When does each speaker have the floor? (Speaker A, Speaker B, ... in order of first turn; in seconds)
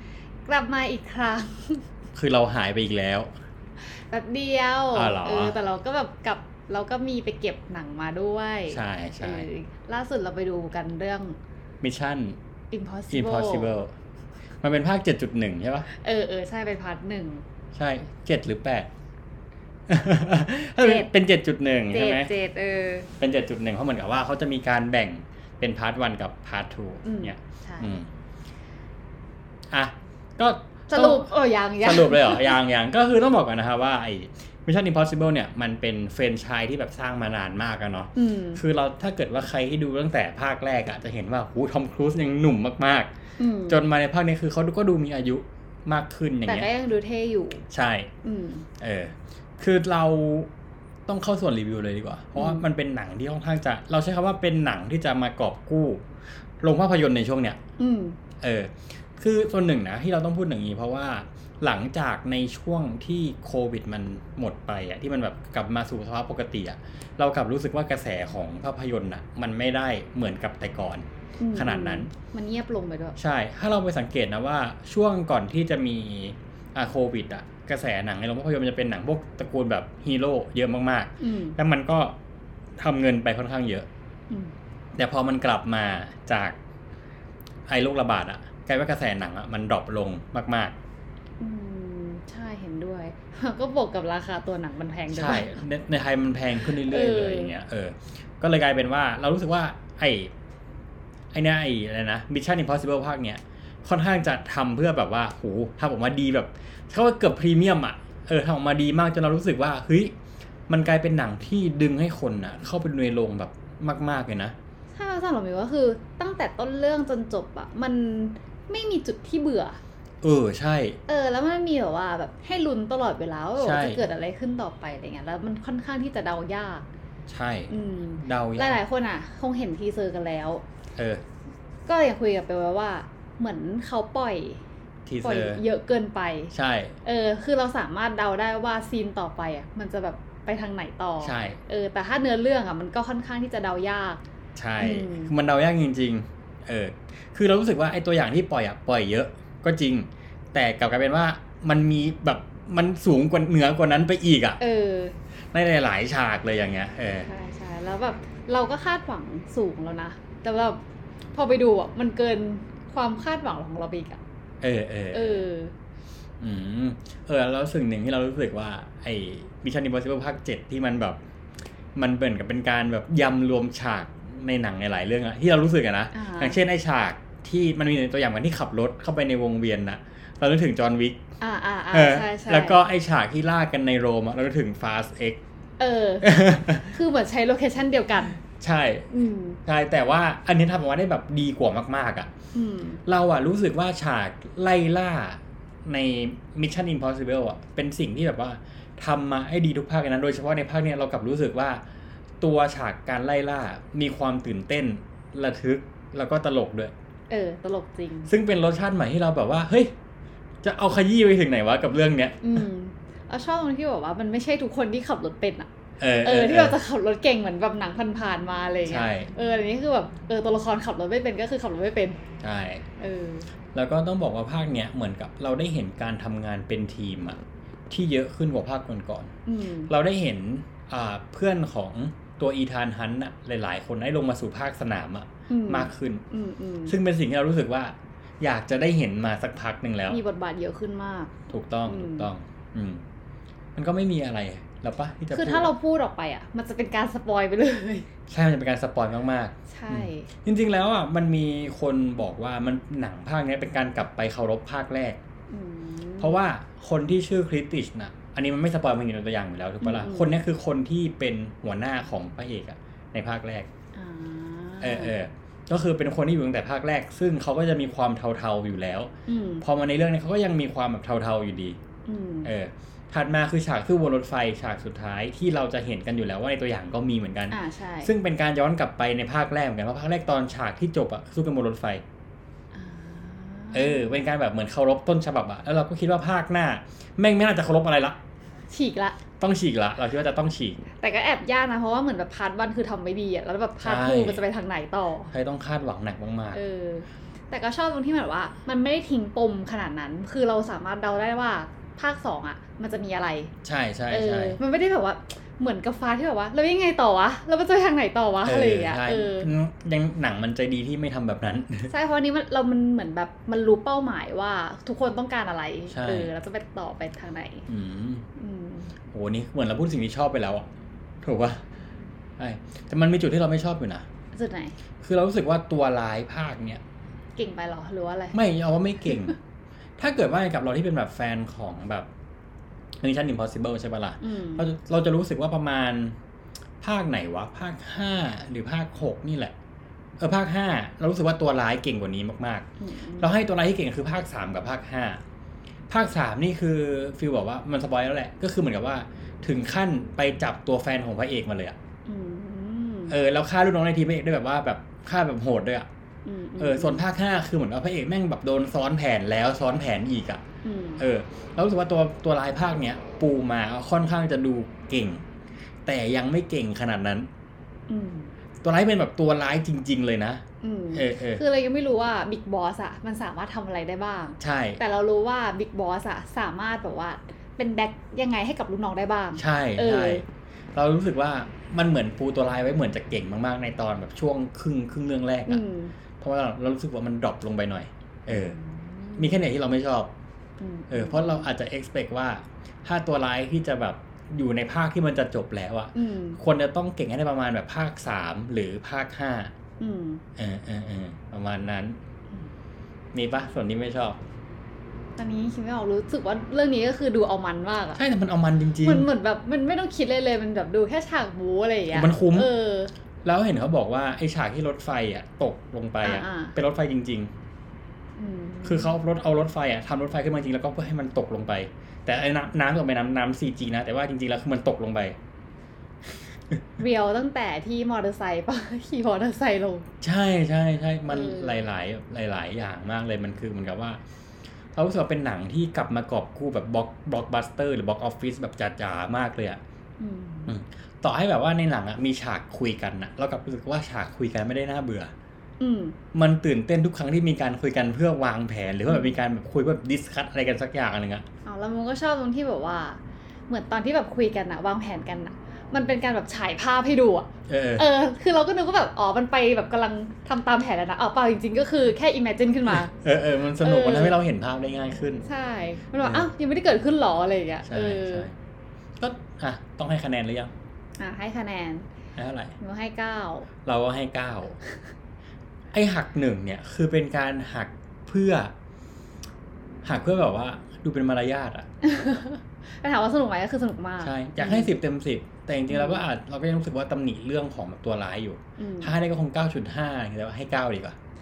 Speaker A: 0.5-1.9, 3.8-11.4, 12.7-13.8, 15.9-17.4, 20.8-21.1, 21.9-23.1, 27.0-27.9, 30.9-32.6, 38.1-38.6, 43.4-43.8, 46.5-47.6, 48.2-48.7, 52.4-52.6, 57.8-58.2, 71.4-73.2, 81.2-81.6, 91.4-95.6, 96.6-97.5, 115.0-119.8, 121.1-126.9, 127.7-130.6, 131.9-134.6, 135.2-136.5, 137.0-144.2, 144.8-145.3, 154.6-155.2, 157.2-160.8, 161.3-164.2, 165.1-165.7, 176.1-176.6, 181.4-182.8, 185.8-186.3, 186.8-188.4, 189.1-189.6, 192.5-193.0, 207.3-208.3, 212.4-215.7, 216.2-222.2, 223.0-223.5, 229.5-229.9, 235.5-236.9, 240.1-241.3, 241.9-242.3, 245.3-248.1, 249.7-250.3, 255.5-256.4, 259.8-260.4, 263.9-265.1, 269.3-269.6, 272.1-272.5, 277.5-278.1, 282.7-284.3, 288.7-289.2, 291.0-295.3, 296.5-303.5, 304.1-309.5, 311.9-317.7, 318.4-318.9, 324.3-324.8, 327.4-328.4, 329.0-329.4, 334.2-334.6, 342.8-343.3, 352.1-353.2, 356.2-357.0, 360.6-361.0, 367.9-368.3, 370.6-380.2, 385.5-385.9, 388.3-389.4, 390.6-391.5, 395.9-396.4, 399.8-400.2, 405.2-408.0, 408.8-412.9, 416.0-416.5, 418.2-418.9, 426.8-429.9, 431.1-431.7, 440.0-440.6, 445.6-446.0, 448.9-449.2, 451.4-462.9, 463.6-464.2, 465.2-468.3, 471.0-471.9, 472.6-473.5, 481.8-484.7, 485.7-486.0, 488.6-488.9
Speaker B: 2.1-3.3, 4.9-5.6, 8.7-9.5, 11.8-12.4, 13.1-13.9, 14.6-15.9, 17.8-18.9, 19.9-22.3, 23.2-28.1, 29.7-43.1, 43.7-46.7, 47.7-48.1, 48.8-50.5, 51.1-56.0, 56.6-57.6, 58.4-72.1, 73.2-82.2, 82.8-83.9, 85.0-86.6, 87.7-90.8, 95.1-100.3, 101.3-110.1, 110.7-114.5, 120.2-121.0, 123.6-124.0, 127.3-128.8, 131.0-131.2, 135.1-135.6, 136.5-136.9, 141.2-141.6, 144.6-154.6, 155.5-157.3, 164.6-165.5, 166.4-171.2, 171.9-181.2, 181.9-185.4, 186.2-187.0, 188.4-189.1, 189.7-192.3, 193.1-201.8, 202.4-206.9, 208.3-209.9, 210.6-212.7, 216.0-216.8, 218.9-219.3, 222.4-222.8, 223.7-227.4, 227.9-229.3, 229.9-236.2, 236.9-240.2, 241.5-243.0, 243.8-245.7, 248.3-255.2, 256.2-263.7, 264.8-271.8, 272.4-282.0, 283.7-288.2, 289.4-290.8, 293.8-294.4, 295.3-296.6, 303.6-304.6, 308.4-311.9, 315.9-316.3, 317.7-318.3, 319.1-320.7, 321.2-321.6, 322.4-324.1, 325.0-326.8, 328.3-329.4, 330.0-332.1, 333.0-336.2, 336.8-339.5, 340.2-342.7, 343.2-345.2, 345.9-351.8, 353.1-355.9, 356.6-360.4, 361.0-365.2, 365.9-367.3, 368.6-371.4, 374.4-374.8, 379.4-385.6, 386.2-388.6, 389.2-390.1, 390.9-399.5, 400.4-402.0, 403.1-404.2, 408.0-409.1, 411.9-412.5, 413.2-417.3, 418.6-425.2, 430.0-434.0, 434.7-439.6, 440.5-445.1, 446.1-451.2, 457.5-457.9, 462.9-465.3, 466.0-466.3, 467.6-468.4, 469.0-470.5, 472.2-472.6, 473.6-474.6, 475.7-478.5, 479.8-481.7, 484.0-491.0